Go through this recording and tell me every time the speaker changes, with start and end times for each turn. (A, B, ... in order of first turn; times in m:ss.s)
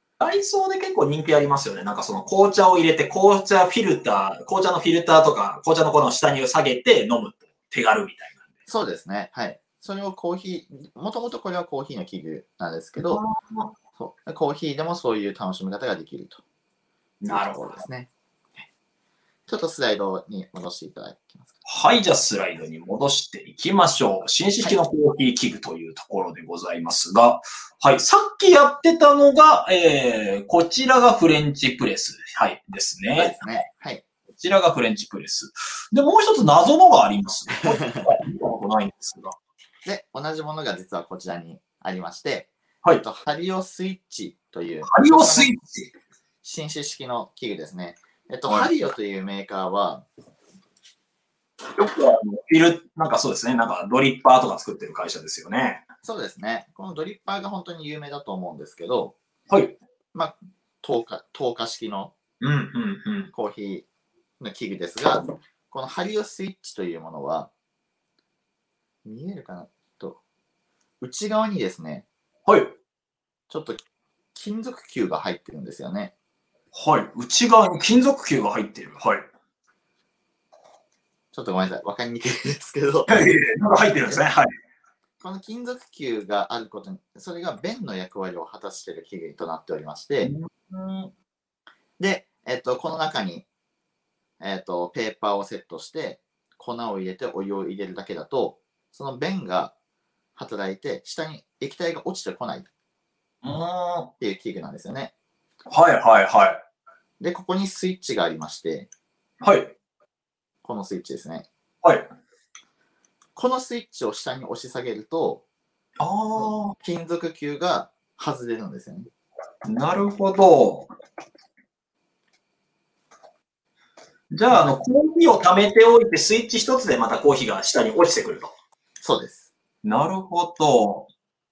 0:00.2-0:08.5 A
0:08.7-0:13.2 B
0:13.0-0:13.7 A
0:14.0-0:16.4 B
0:17.2-0:17.8 A
0:17.3-0:18.6 B
0:19.5-0:21.5 B
0:21.6-0:33.4 A
0:33.2-0:34.0 B
0:34.4-0:39.4 A
0:37.6-0:38.1 B
0:39.8-0:45.5 B
0:44.8-0:45.9 A
0:46.4-0:50.0 B
0:48.5-0:48.7 A
0:51.8-0:55.8 A
0:56.0-0:59.2 B
0:59.5-0:59.8 A
1:00.1-1:02.1 B
1:02.4-1:03.3 A
1:03.3-1:03.9 B
1:04.4-1:07.5 B
1:09.0-1:10.2 B
1:11.0-1:12.0 B
1:12.5-1:12.8 A
1:13.5-1:13.8 B
1:14.4-1:16.1 B
1:16.7-1:19.3 A
1:21.3-1:23.2 B
1:23.1-1:24.5 A
1:25.2-1:30.3 B
1:30.2-1:31.1 A
1:32.0-1:33.4 B
1:34.4-1:39.7 B
1:40.4-1:42.7 B
1:43.4-1:44.1 A
1:44.2-1:45.1 B
1:45.7-1:46.6 A
1:47.2-1:48.9 B
1:49.4-1:49.8 A
1:50.6-1:51.5 B
1:51.8-1:52.1 A
1:53.4-1:55.4 B
1:56.0-1:56.8 A
1:56.4-1:59.1 B
1:59.6-2:00.9 A
2:04.3-2:08.5 A
2:09.0-2:09.5 B
2:09.8-2:11.1 A